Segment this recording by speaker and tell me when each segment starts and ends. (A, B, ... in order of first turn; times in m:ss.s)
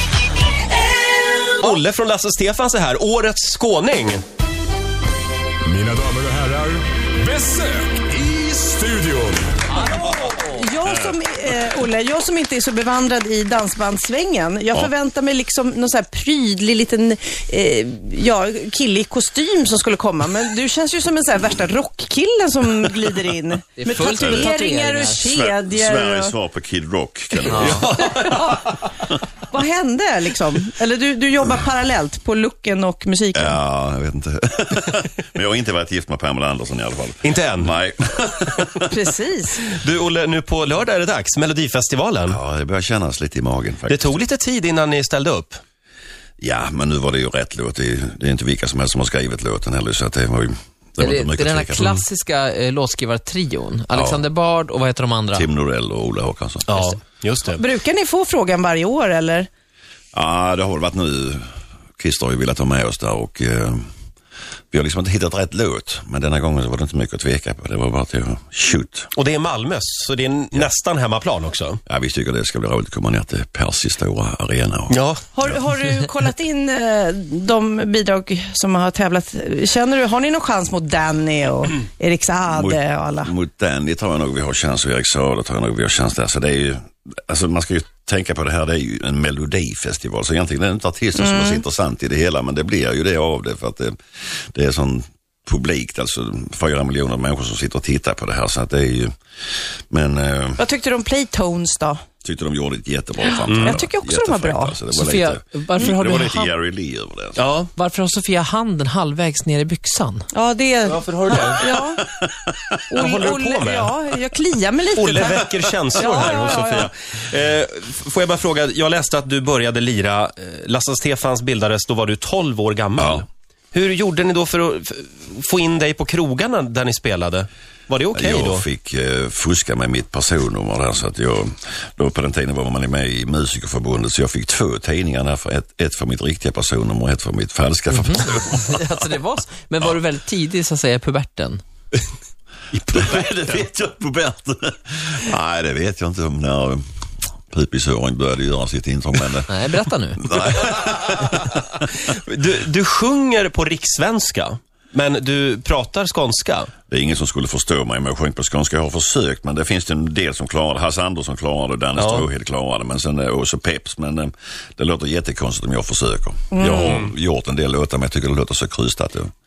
0:01.6-0:04.2 A
0:05.6-0:09.6 B
0:09.7-0:10.3 C
0:09.8-0:26.3 D
0:23.8-0:25.3 C
0:24.2-0:24.5 E
0:25.3-0:27.9 E
0:27.4-0:28.7 A
0:27.5-0:27.9 C
0:28.0-0:28.8 D
0:29.5-0:33.6 D
0:33.3-0:38.9 E
0:37.2-0:37.8 A
0:38.9-0:39.6 D
0:39.7-0:42.4 A
0:42.3-0:44.2 E
0:43.9-0:45.6 A
0:46.4-0:51.9 E
0:51.0-0:55.5 C
0:53.9-0:54.2 E
0:55.3-0:56.9 E
0:56.7-0:57.6 A
0:57.5-0:59.5 D
1:00.1-1:03.8 E
1:04.7-1:09.1 E
1:09.1-1:11.8 A
1:11.8-1:15.6 E
1:14.9-1:15.2 A
1:15.3-1:23.3 D
1:22.5-1:34.0 E
1:31.1-1:31.6 D
1:34.5-1:39.1 E
1:39.9-1:40.6 E
1:40.6-1:42.0 D
1:42.2-1:47.4 E
1:43.5-1:43.8 A
1:43.6-1:44.8 D
1:44.9-1:46.5 C
1:47.4-1:47.7 A
1:47.8-1:50.3 C
1:50.3-1:52.0 D
1:50.9-1:51.6 A
1:52.0-1:52.8 E
1:52.9-1:56.9 D
1:53.0-1:53.9 A
1:55.0-2:08.6 A
2:03.0-2:03.2 E
2:08.1-2:19.0 E
2:17.9-2:21.6 C
2:22.9-2:26.8 E
2:27.5-2:29.6 E
2:29.5-2:30.5 C
2:30.2-2:31.5 E
2:31.3-2:36.7 A
2:36.9-2:49.3 E
2:42.0-2:42.2 A
2:46.5-2:47.0 D
2:46.8-2:47.1 A